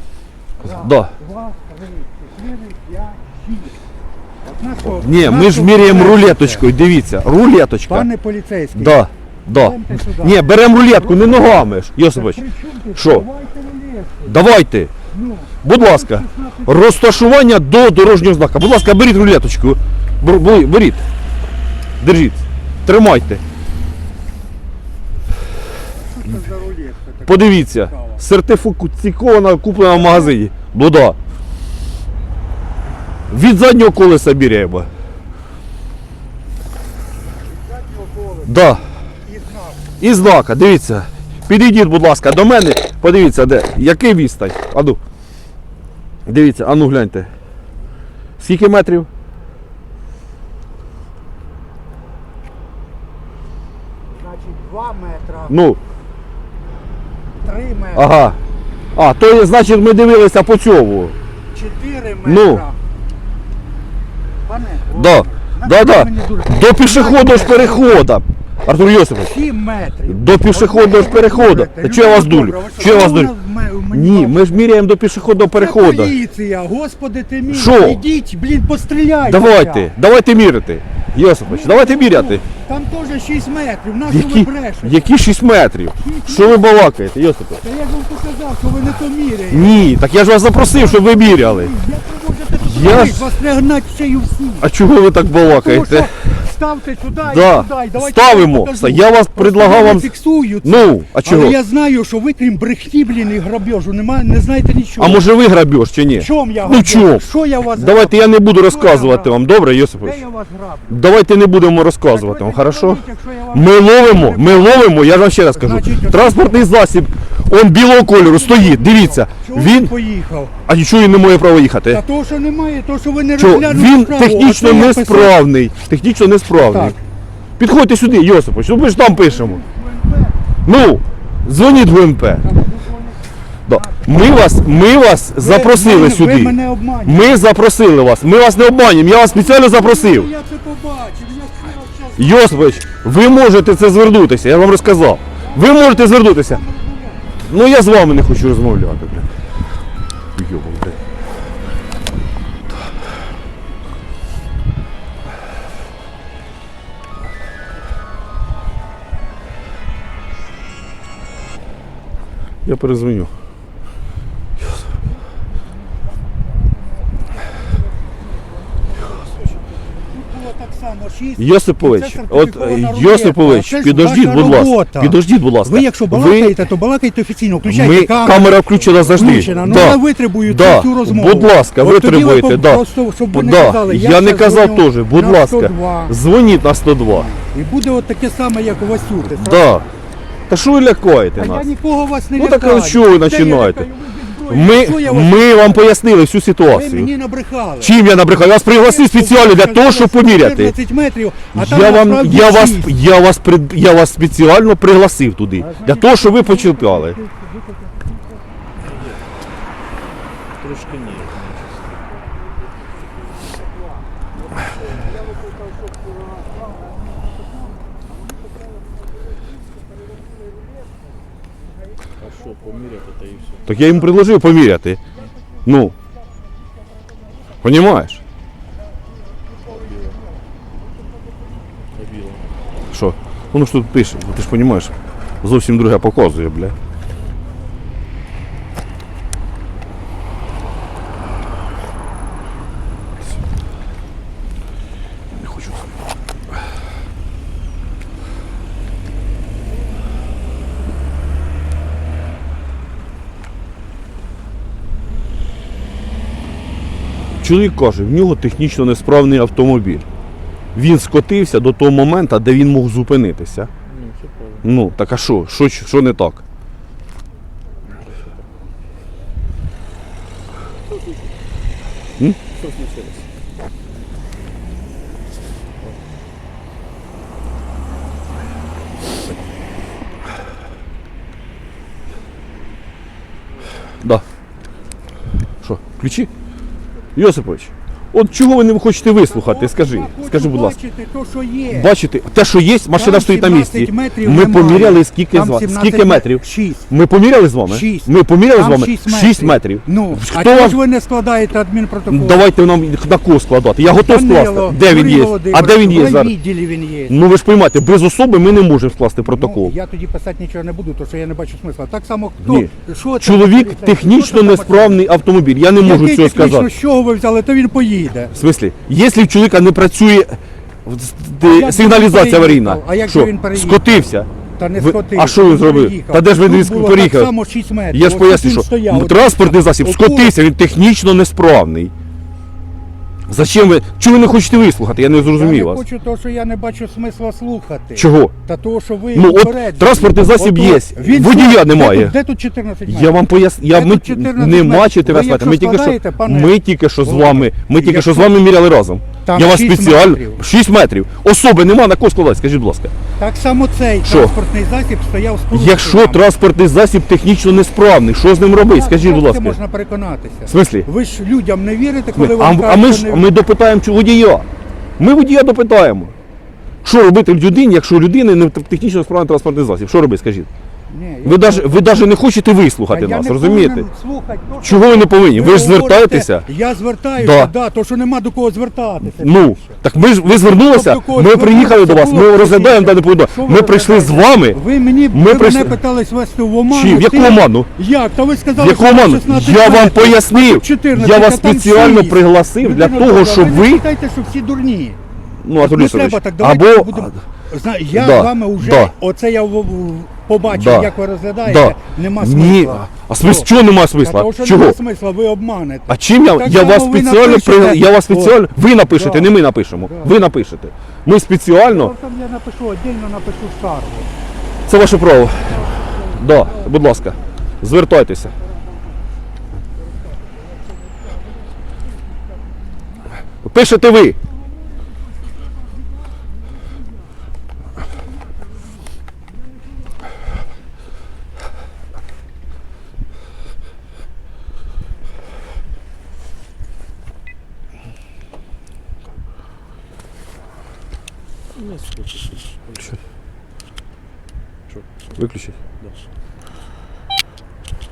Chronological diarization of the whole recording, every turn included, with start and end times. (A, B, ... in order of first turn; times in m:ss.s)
0:00.6-0:03.8 A
0:00.6-0:01.1 B
0:04.5-0:06.7 A
0:04.9-0:08.1 B
0:07.9-0:14.4 A
0:08.8-0:12.4 B
0:12.9-0:13.3 B
0:14.3-0:14.9 B
0:15.1-0:17.0 A
0:15.6-0:21.1 B
0:22.0-0:23.4 B
0:26.1-0:28.2 A
0:27.2-0:31.2 B
0:29.9-0:30.4 A
0:33.3-0:34.9 B
0:37.6-0:39.9 A
0:38.4-0:38.9 B
0:40.0-0:45.0 B
0:46.2-0:47.3 B
0:48.4-0:49.1 B
0:54.1-0:55.6 A
0:55.5-0:55.8 B
0:57.4-0:58.1 A
0:57.9-0:58.4 B
0:59.0-1:01.2 B
1:01.5-1:02.8 A
1:02.2-1:02.7 B
1:04.4-1:08.0 A
1:04.9-1:09.4 B
1:09.2-1:14.6 A
1:10.1-1:13.3 B
1:13.9-1:16.2 B
1:15.5-1:19.9 A
1:17.5-1:18.0 B
1:19.2-1:22.4 B
1:21.4-1:25.2 A
1:24.1-1:27.6 B
1:26.0-1:26.9 A
1:27.6-1:29.9 A
1:29.5-1:31.7 B
1:30.6-1:34.7 A
1:32.6-1:33.4 B
1:34.6-1:36.2 B
1:35.4-1:45.2 A
1:37.2-1:41.6 B
1:45.0-1:50.2 B
1:46.2-1:49.4 A
1:50.0-1:51.0 A
1:50.9-1:59.9 B
1:52.1-1:54.9 A
1:55.5-1:56.6 A
1:58.2-2:00.5 A
2:00.6-2:02.0 B
2:01.9-2:05.4 A
2:03.4-2:07.0 B
2:06.6-2:07.0 A
2:07.6-2:09.6 B
2:09.0-2:10.4 A
2:10.6-2:12.4 B
2:12.4-2:14.2 A
2:13.6-2:20.3 B
2:15.4-2:17.4 A
2:19.1-2:22.5 A
2:22.2-2:26.6 B
2:25.4-2:27.2 A
2:27.4-2:29.4 B
2:30.4-2:31.0 B
2:42.6-2:43.3 B
2:48.9-2:58.6 A
2:51.4-2:56.6 B
2:57.6-3:07.3 B
2:58.4-3:00.0 C
2:59.1-3:06.2 A
3:07.1-3:09.6 A
3:09.4-3:09.9 B
3:10.5-3:11.7 B
3:11.4-3:15.9 A
3:12.4-3:13.9 B
3:14.5-3:17.1 B
3:16.7-3:17.9 A
3:17.8-3:20.8 B
3:18.6-3:23.0 A
3:21.5-3:27.2 B
3:25.6-3:28.3 A
3:28.9-3:29.2 C
3:30.6-3:32.1 C
3:36.2-3:36.5 A
3:42.2-3:43.7 C
3:43.6-3:45.0 B
3:45.6-3:46.0 B
3:47.6-3:48.2 B
3:49.6-3:50.2 C
3:52.0-3:52.5 C
3:52.9-3:56.8 B
4:05.3-4:05.9 B
4:17.4-4:20.0 B
4:20.8-4:23.7 B
4:23.9-4:24.6 C
4:24.6-4:26.4 B
4:27.9-4:28.4 C
4:32.5-4:33.3 C
4:45.6-4:46.3 B
4:47.1-4:50.8 B
4:49.3-4:51.9 A
4:51.7-5:00.8 B
4:52.9-4:56.9 A
4:57.7-5:02.4 A
5:02.1-5:06.4 B
5:04.0-5:07.2 A
5:07.1-5:09.7 B
5:09.2-5:15.0 A
5:12.4-5:16.7 B
5:15.8-5:18.3 A
5:18.3-5:27.3 B
5:21.4-5:23.8 A
5:24.6-5:30.3 A
5:27.9-5:31.9 B
5:33.3-5:35.8 B
5:35.3-5:48.3 A
5:38.0-5:38.4 B
5:39.1-5:42.1 B
5:42.9-5:52.9 B
5:49.2-5:50.4 A
5:53.2-5:56.2 A
5:54.0-5:54.4 B
5:55.5-5:59.6 B
5:58.6-6:03.2 A
6:00.5-6:00.9 B
6:02.1-6:04.5 B
6:05.0-6:06.1 B
6:06.8-6:10.5 B
6:10.9-6:12.0 A
6:11.2-6:13.9 B
6:12.9-6:19.8 A
6:14.6-6:16.5 B
6:17.2-6:17.5 B
6:19.0-6:25.8 B
6:20.5-6:35.0 A
6:26.7-6:27.7 B
6:28.5-6:33.8 B
6:35.4-6:37.2 B
6:35.6-6:43.5 A
6:37.9-6:39.0 B
6:40.4-6:40.9 B
6:41.4-6:44.8 B
6:44.0-6:50.1 A
6:45.9-6:51.9 B
6:51.7-6:54.1 A
6:54.7-6:58.4 B
6:55.9-6:56.2 A
7:03.4-7:04.2 B
7:21.5-7:23.0 C
7:25.2-7:25.6 B